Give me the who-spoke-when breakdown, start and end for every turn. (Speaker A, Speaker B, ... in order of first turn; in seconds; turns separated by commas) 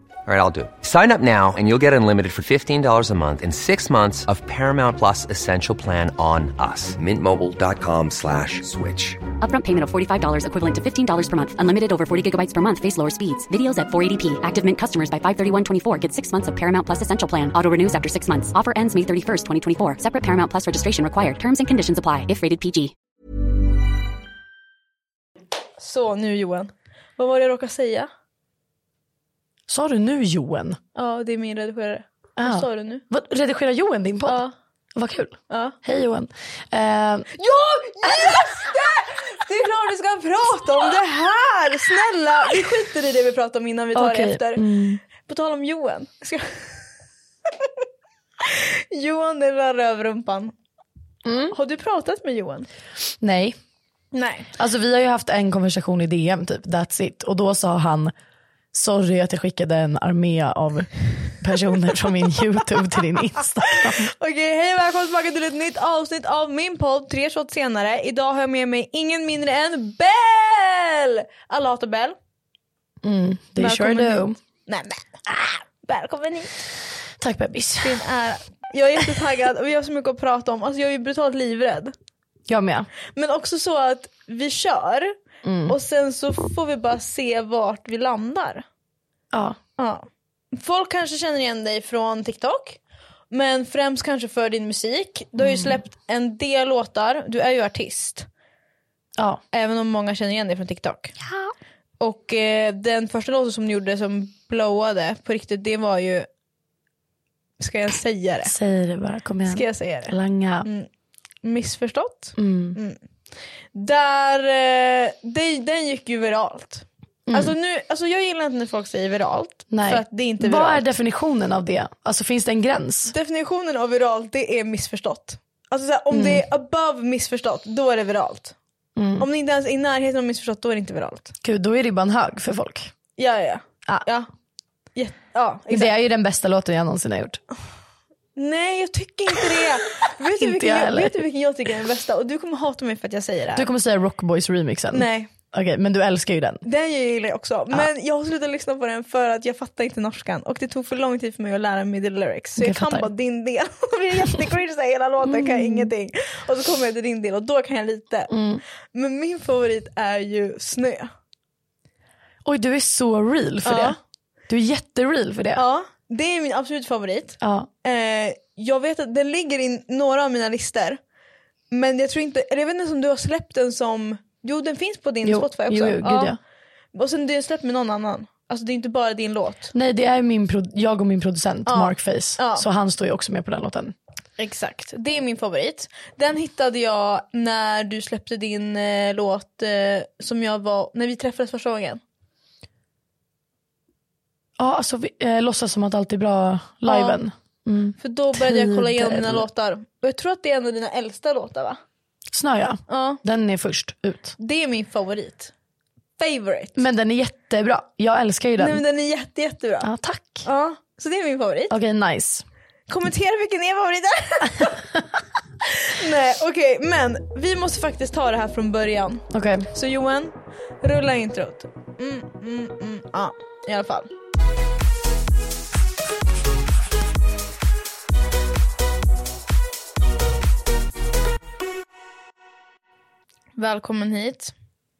Speaker A: 0.2-9.2, Speaker B: 9.4-22.9, Speaker C: 25.8-28.1, Speaker D: 29.7-30.8, Speaker C: 30.9-33.0, Speaker D: 32.4-34.4, Speaker C: 34.2-34.5, Speaker D: 35.0-37.3, Speaker C: 35.5-35.8, Speaker C: 37.4-44.7, Speaker D: 38.0-38.5, Speaker D: 44.0-45.0, Speaker C: 45.2-46.7, Speaker C: 48.4-50.5, Speaker D: 51.2-51.5, Speaker C: 51.5-52.7, Speaker D: 53.2-53.6, Speaker C: 54.1-54.5, Speaker D: 54.5-58.1, Speaker D: 58.7-64.1, Speaker C: 63.6-72.2, Speaker D: 73.0-74.4, Speaker C: 73.6-76.6, Speaker D: 77.2-78.0, Speaker C: 77.8-81.9, Speaker D: 82.5-82.9, Speaker C: 83.1-85.1, Speaker D: 85.4-85.8, Speaker C: 85.7-88.6, Speaker D: 89.3-89.6, Speaker C: 89.8-92.8, Speaker C: 93.3-98.3, Speaker D: 95.4-95.8, Speaker C: 99.5-101.1, Speaker C: 102.0-106.3, Speaker C: 107.6-108.5, Speaker D: 108.4-110.7, Speaker C: 109.5-110.9, Speaker C: 111.4-113.0, Speaker D: 112.4-112.8, Speaker C: 113.7-120.8, Speaker D: 117.3-117.5, Speaker D: 119.7-123.1, Speaker C: 123.1-128.5, Speaker D: 126.1-126.4, Speaker D: 129.0-129.2, Speaker C: 129.2-131.3, Speaker D: 131.4-132.9, Speaker C: 133.2-134.3, Speaker C: 134.9-135.9, Speaker D: 135.7-137.4, Speaker C: 138.3-143.7, Speaker D: 140.3-141.2, Speaker D: 143.6-146.6, Speaker C: 144.9-145.3, Speaker C: 146.7-158.3, Speaker D: 152.6-153.1, Speaker D: 155.2-155.9, Speaker D: 158.3-158.6, Speaker C: 158.9-161.1, Speaker D: 162.4-164.0, Speaker C: 163.6-164.0, Speaker D: 164.5-165.6, Speaker C: 165.5-171.0, Speaker D: 167.4-167.7, Speaker C: 171.7-176.3, Speaker D: 175.2-176.4, Speaker C: 176.9-179.7, Speaker D: 179.7-183.9, Speaker C: 181.7-182.7, Speaker C: 184.4-192.0, Speaker D: 194.6-199.5, Speaker C: 196.8-197.2, Speaker C: 198.0-201.8, Speaker D: 202.3-204.3, Speaker C: 202.9-203.2, Speaker C: 204.4-205.5, Speaker C: 206.2-206.8, Speaker D: 206.8-208.8, Speaker C: 208.6-209.9, Speaker D: 209.8-210.5, Speaker C: 210.4-211.8, Speaker D: 211.7-212.4, Speaker C: 212.9-214.8, Speaker D: 214.5-215.0, Speaker C: 215.8-224.1, Speaker D: 219.3-219.7, Speaker C: 233.6-234.5